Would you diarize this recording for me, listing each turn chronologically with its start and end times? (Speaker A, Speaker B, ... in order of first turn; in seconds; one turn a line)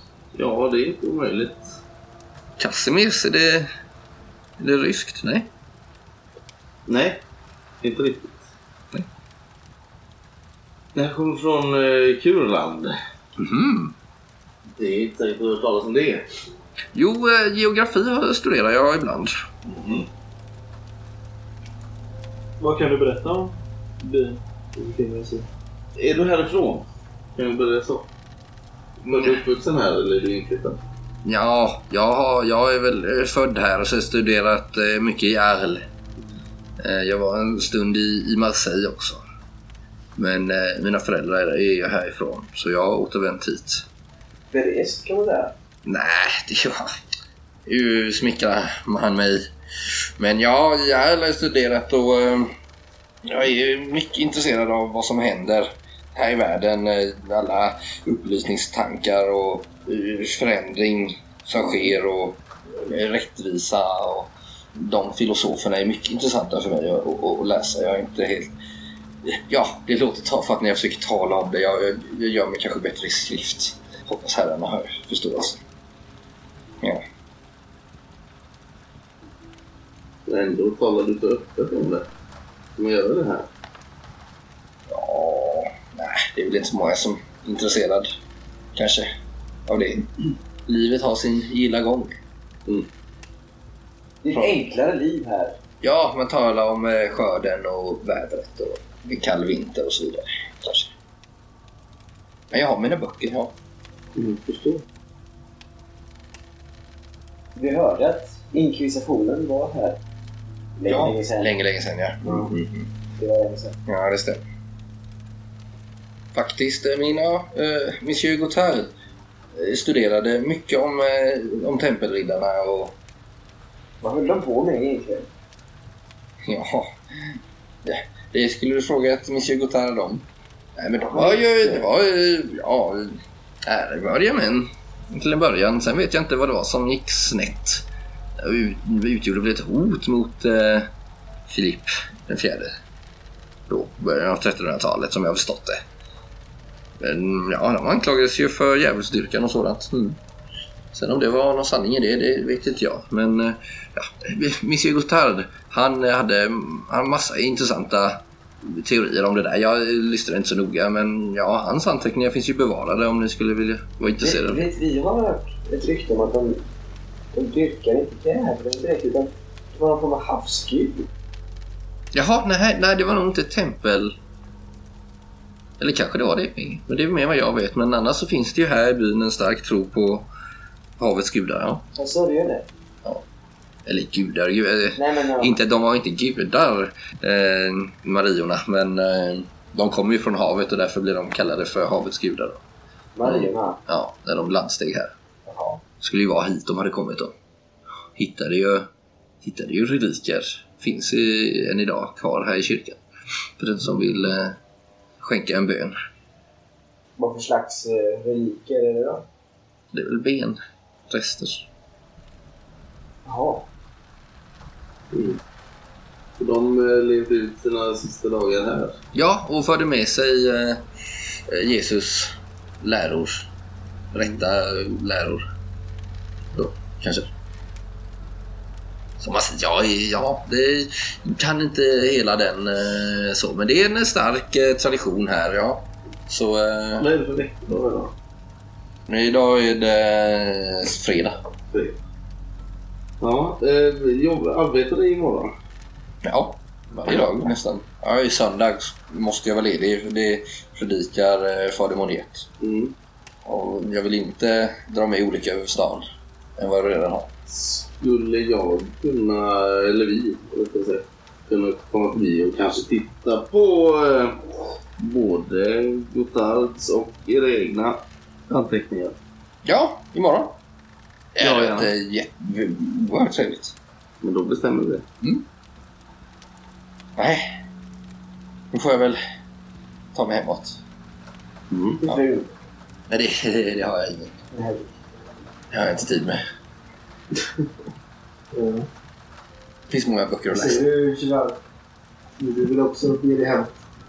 Speaker A: 0.3-1.8
Speaker B: 2.6-3.7
Speaker B: 4.6-5.5
Speaker A: 6.9-7.2
Speaker A: 7.8-8.5
Speaker A: 10.9-12.9
Speaker B: 13.4-13.9
Speaker A: 14.8-16.2
Speaker B: 16.9-19.4
Speaker A: 19.7-20.1
Speaker C: 22.6-25.5
Speaker A: 26.0-28.1
Speaker A: 29.0-30.8
Speaker B: 31.2-35.8
Speaker B: 36.8-39.2
Speaker B: 40.2-43.9
Speaker D: 44.5-45.5
Speaker B: 45.9-46.9
Speaker B: 47.7-52.5
Speaker B: 53.2-68.5
Speaker B: 69.2-75.6
Speaker A: 80.3-82.1
Speaker A: 82.8-83.5
Speaker B: 84.9-88.2
Speaker B: 88.8-89.1
Speaker B: 89.7-92.2
Speaker D: 94.2-95.6
Speaker B: 94.3-94.6
Speaker B: 95.8-100.9
Speaker B: 102.5-103.5
Speaker A: 104.2-104.8
Speaker D: 107.5-110.0
Speaker D: 110.8-111.5
Speaker B: 110.9-112.9
Speaker D: 112.2-112.5
Speaker D: 113.2-113.8
Speaker B: 113.9-114.4
Speaker B: 116.3-118.9
Speaker B: 119.5-123.0
Speaker D: 124.0-125.3
Speaker B: 126.5-127.0
Speaker B: 127.8-137.9
Speaker D: 131.1-131.8
Speaker B: 138.4-140.9
Speaker B: 141.5-142.7
Speaker B: 143.7-145.8
Speaker B: 147.0-150.2
Speaker B: 150.9-164.6
Speaker D: 164.2-166.6
Speaker D: 167.3-171.1
Speaker B: 172.1-174.2
Speaker B: 175.8-180.3
Speaker B: 181.0-181.8
Speaker D: 181.9-182.7
Speaker B: 183.9-192.6
Speaker D: 185.0-185.5
Speaker D: 193.2-193.8
Speaker B: 193.2-195.1
Speaker D: 195.5-195.8
Speaker B: 196.0-197.3
Speaker B: 198.2-198.9
Speaker B: 199.4-203.0
Speaker B: 203.6-204.6
Speaker B: 205.2-205.9
Speaker D: 207.2-209.3
Speaker B: 209.9-210.6
Speaker B: 211.1-211.7
Speaker D: 213.2-213.7
Speaker A: 215.1-215.4
Speaker A: 216.4-219.0
Speaker B: 219.1-223.5
Speaker B: 224.1-225.4
Speaker B: 226.5-227.3
Speaker B: 229.2-237.1
Speaker A: 237.0-238.1
Speaker B: 239.1-241.4
Speaker A: 241.7-242.0
Speaker A: 243.2-245.5
Speaker B: 246.2-252.5
Speaker A: 252.6-252.9
Speaker B: 253.4-256.1
Speaker B: 256.6-257.3
Speaker A: 257.5-269.2
Speaker B: 269.6-270.6
Speaker B: 271.4-273.8
Speaker A: 271.4-271.9
Speaker A: 274.2-275.1
Speaker B: 277.2-277.4
Speaker B: 278.7-279.2
Speaker B: 280.1-280.8
Speaker A: 281.7-282.0
Speaker D: 282.0-282.5
Speaker B: 283.1-284.4
Speaker E: 284.5-284.8
Speaker B: 285.7-286.4
Speaker E: 288.5-288.9
Speaker B: 289.9-290.8
Speaker E: 290.5-291.6
Speaker E: 292.4-293.7